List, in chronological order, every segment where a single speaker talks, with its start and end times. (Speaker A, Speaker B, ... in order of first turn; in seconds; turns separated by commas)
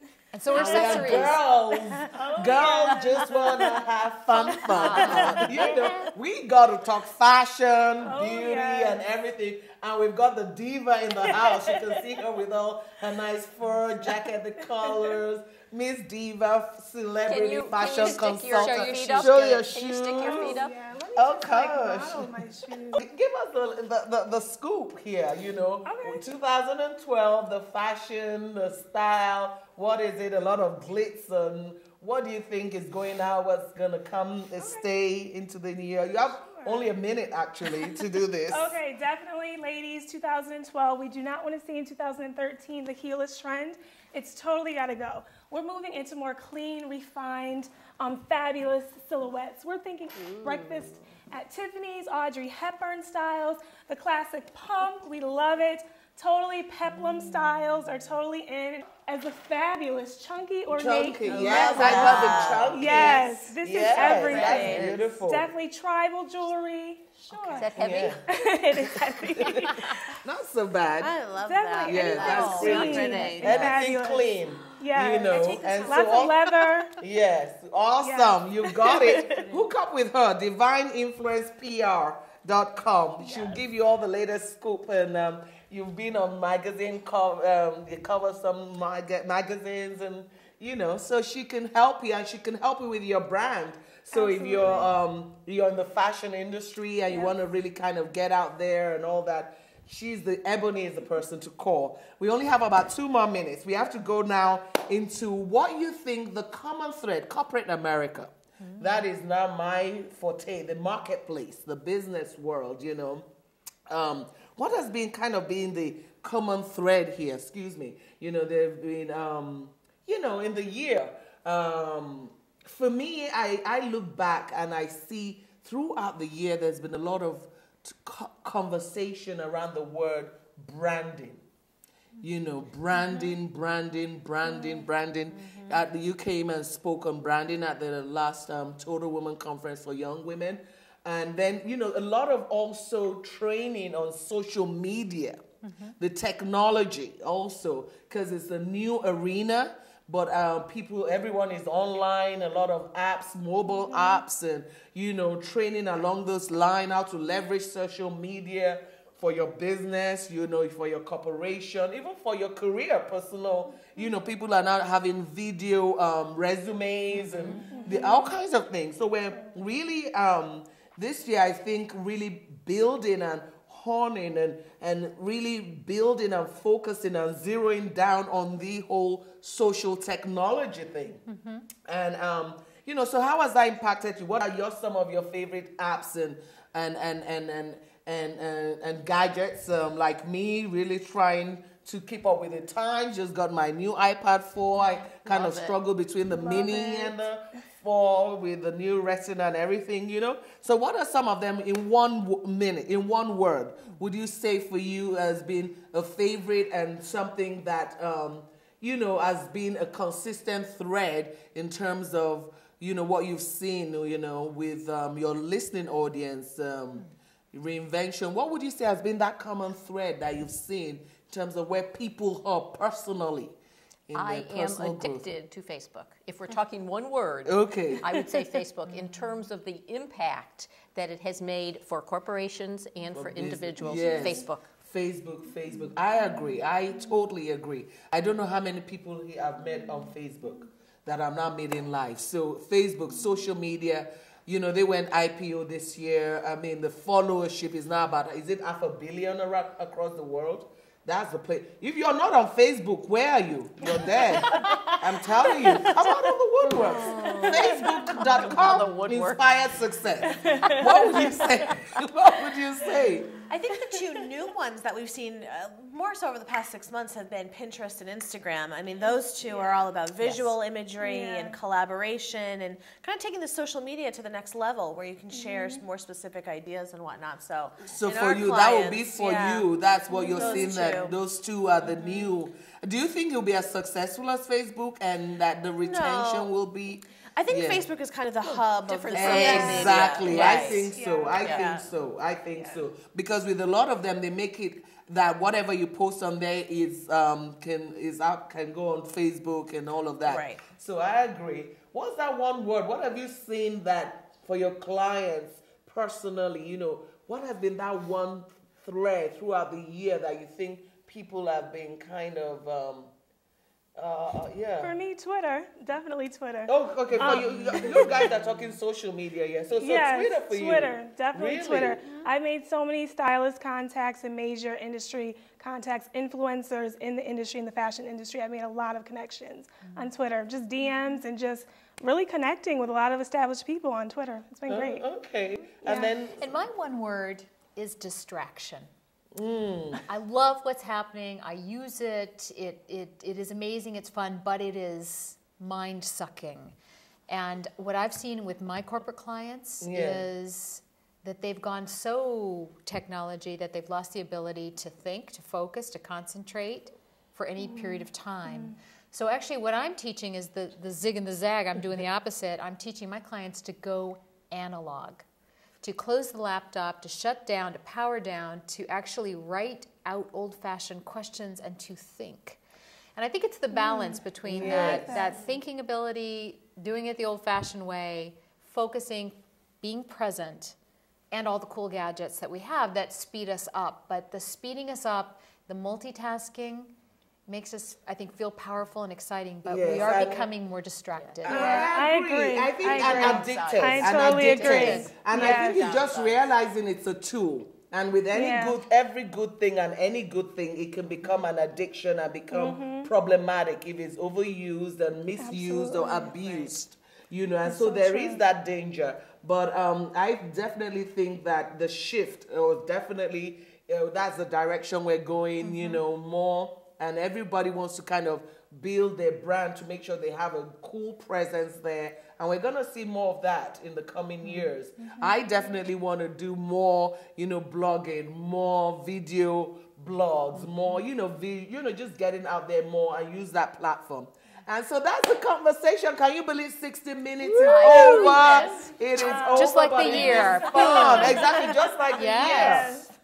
Speaker A: 0.3-1.4, Speaker B: 0.5-20.6, Speaker C: 0.5-6.1, Speaker D: 4.7-5.8, Speaker C: 8.0-9.0, Speaker C: 11.2-12.0, Speaker C: 14.9-15.1, Speaker D: 17.3-20.8, Speaker A: 18.6-19.6, Speaker C: 20.1-23.1, Speaker B: 21.1-22.4, Speaker B: 22.9-38.8, Speaker C: 25.8-26.3, Speaker C: 34.6-34.8, Speaker C: 36.4-36.9, Speaker C: 38.5-62.1, Speaker D: 50.1-51.1, Speaker B: 60.7-65.5, Speaker E: 61.3-63.2, Speaker D: 61.3-63.0, Speaker C: 62.7-67.7, Speaker E: 63.9-64.8, Speaker D: 63.9-65.1, Speaker D: 67.5-68.2, Speaker B: 67.5-68.2, Speaker C: 68.3-70.0, Speaker B: 68.9-71.2, Speaker D: 69.6-69.9, Speaker E: 71.0-73.8, Speaker C: 71.4-77.0, Speaker B: 71.8-113.3, Speaker D: 72.1-73.7, Speaker E: 75.4-76.3, Speaker C: 78.0-79.5, Speaker C: 83.3-83.6, Speaker C: 94.1-94.9, Speaker B: 113.9-131.4, Speaker B: 132.2-145.5, Speaker A: 145.6-145.9, Speaker B: 146.0-181.2, Speaker D: 167.3-167.8, Speaker C: 167.7-168.3, Speaker A: 181.3-181.7, Speaker B: 181.8-223.6, Speaker D: 195.2-195.8, Speaker C: 196.3-197.2, Speaker B: 224.1-225.3, Speaker D: 224.1-234.7, Speaker B: 227.5-228.4, Speaker B: 233.1-263.3, Speaker C: 256.8-258.4, Speaker D: 256.9-259.5, Speaker C: 260.2-261.5, Speaker D: 260.6-261.1, Speaker E: 263.5-281.2, Speaker C: 269.4-269.9, Speaker C: 271.0-271.6, Speaker C: 275.3-275.8, Speaker B: 277.9-287.9, Speaker C: 280.1-280.7, Speaker E: 285.8-286.5, Speaker E: 287.4-291.9, Speaker D: 288.4-291.7, Speaker B: 289.1-313.1, Speaker C: 289.5-289.9, Speaker C: 290.9-291.4, Speaker E: 300.2-300.6, Speaker B: 314.0-315.0, Speaker C: 314.8-318.3, Speaker B: 316.7-322.1, Speaker C: 319.8-335.1, Speaker A: 329.8-330.1, Speaker B: 334.7-336.5, Speaker A: 335.8-338.9, Speaker B: 339.4-340.0, Speaker A: 340.1-346.8, Speaker A: 347.3-365.2, Speaker B: 349.8-350.3, Speaker C: 358.5-358.8, Speaker A: 365.8-372.6, Speaker A: 373.2-380.8, Speaker C: 373.7-375.5, Speaker B: 374.5-375.3, Speaker A: 381.3-386.9, Speaker A: 387.5-391.9, Speaker B: 389.7-390.5, Speaker D: 391.2-391.4, Speaker B: 391.4-443.0, Speaker C: 391.5-395.9, Speaker D: 392.8-396.5, Speaker A: 394.5-395.5, Speaker C: 398.3-398.8, Speaker C: 402.5-403.1, Speaker C: 405.4-406.4, Speaker C: 407.6-408.4, Speaker C: 425.0-425.4, Speaker C: 437.4-443.1, Speaker D: 437.6-438.9, Speaker A: 439.2-441.6, Speaker A: 442.2-443.1